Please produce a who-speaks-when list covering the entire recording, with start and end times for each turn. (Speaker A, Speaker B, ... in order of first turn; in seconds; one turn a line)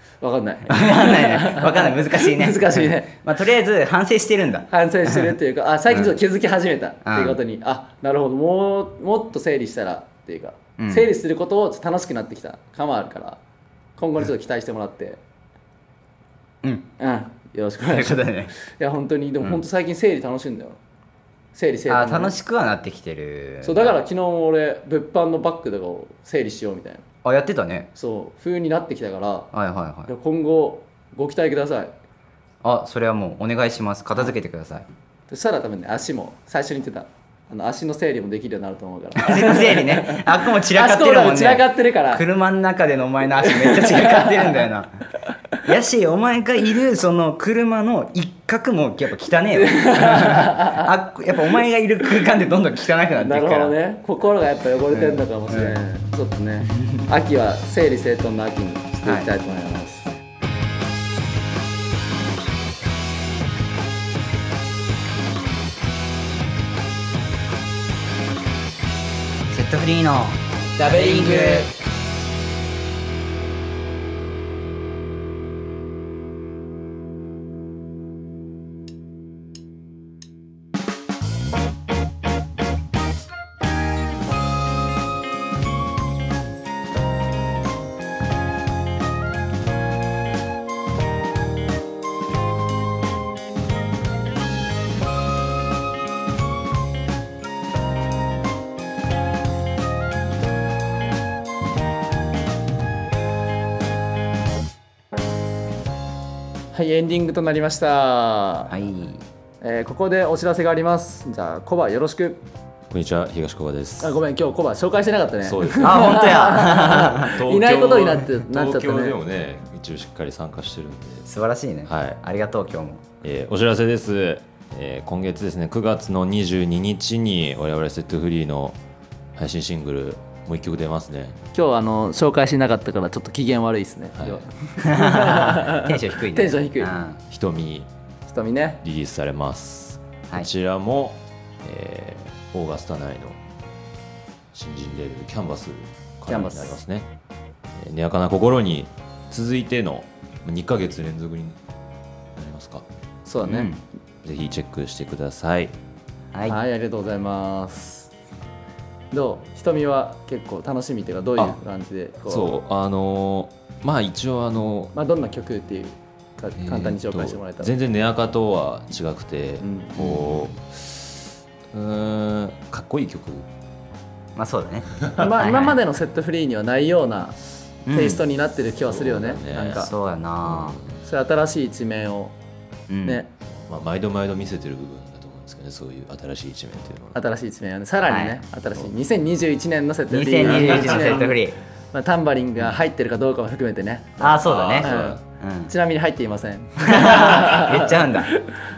Speaker A: 0.2-3.1
Speaker B: 0.7-5.3
Speaker A: 4.7-13.4
Speaker B: 7.0-7.4
Speaker B: 10.8-11.1
Speaker A: 14.0-15.2
Speaker B: 16.6-16.9
Speaker A: 17.0-20.8
Speaker B: 17.9-18.5
Speaker A: 21.5-22.4
Speaker B: 21.9-24.0
Speaker A: 23.6-27.0
Speaker B: 27.2-27.9
Speaker A: 27.9-29.5
Speaker B: 29.5-30.1
Speaker A: 30.1-31.9
Speaker B: 32.6-34.9
Speaker A: 35.3-42.2
Speaker B: 39.2-45.0
Speaker A: 43.4-44.6
Speaker B: 45.6-53.8
Speaker A: 49.5-50.9
Speaker A: 53.2-60.1
Speaker B: 54.9-55.8
Speaker B: 56.7-57.0
Speaker B: 69.5-71.7
Speaker A: 70.8-71.7
Speaker A: 106.7-108.7
Speaker B: 108.7-109.2
Speaker A: 109.6-112.4
Speaker C: 112.9-114.2
Speaker A: 114.0-119.2
Speaker C: 115.4-121.2
Speaker B: 115.8-117.3
Speaker B: 121.2-123.0
Speaker C: 121.9-122.2
Speaker C: 123.2-128.8
Speaker C: 129.3-131.4
Speaker A: 131.5-137.0
Speaker C: 134.2-134.4
Speaker B: 134.8-137.2
Speaker C: 137.3-137.9
Speaker A: 138.3-138.8
Speaker C: 138.8-143.4
Speaker C: 144.5-147.1
Speaker A: 146.3-146.8
Speaker C: 147.8-151.6
Speaker C: 152.3-152.8
Speaker A: 153.2-153.7
Speaker B: 153.4-153.8
Speaker C: 154.2-155.7
Speaker A: 156.5-158.1
Speaker A: 159.1-162.5
Speaker C: 162.2-164.9
Speaker A: 164.9-167.7
Speaker C: 166.6-173.4
Speaker A: 169.6-170.3
Speaker B: 174.3-175.8
Speaker A: 175.2-177.3
Speaker B: 177.8-178.2
Speaker A: 177.9-179.9
Speaker C: 178.9-179.9
Speaker B: 179.7-180.8
Speaker C: 180.4-181.0
Speaker A: 181.0-182.3
Speaker B: 182.9-183.2
Speaker A: 183.0-183.3
Speaker C: 183.4-187.2
Speaker A: 187.1-191.4
Speaker B: 188.1-188.4
Speaker B: 190.1-191.6
Speaker C: 190.4-191.2
Speaker A: 191.9-198.6
Speaker B: 194.2-195.7
Speaker C: 194.4-195.2
Speaker B: 196.8-198.3